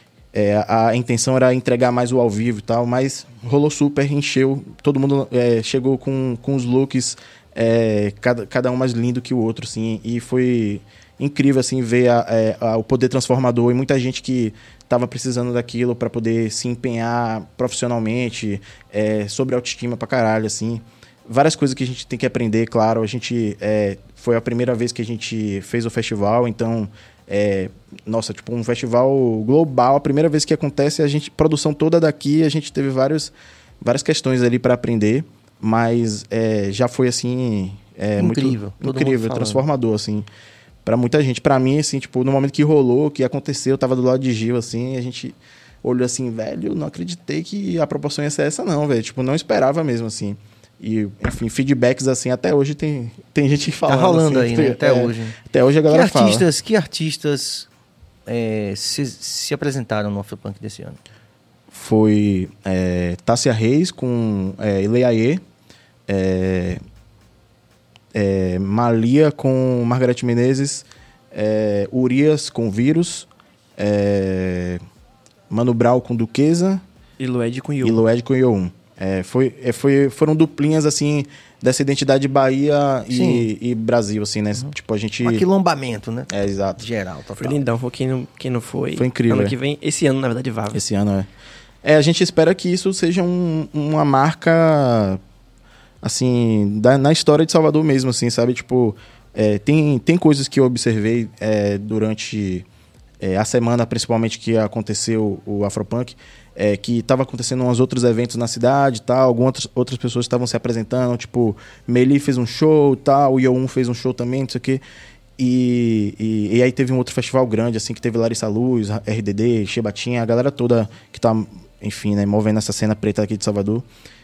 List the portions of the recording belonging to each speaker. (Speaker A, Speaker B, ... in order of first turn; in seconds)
Speaker A: 0.3-40.3, 40.9-56.5, 61.7-65.4, 66.1-66.8, 68.1-74.8, 75.5-76.8, 77.8-85.5, 86.3-86.8, 89.0-89.5, 90.7-91.3, 91.8-95.2, 96.0-102.7, 103.2-114.8, 115.4-123.9
Speaker B: 38.2-39.7, 53.9-55.4, 55.9-57.7, 58.3-61.0, 83.1-83.5, 85.2-87.6
Speaker C: 77.2-78.0, 87.4-90.8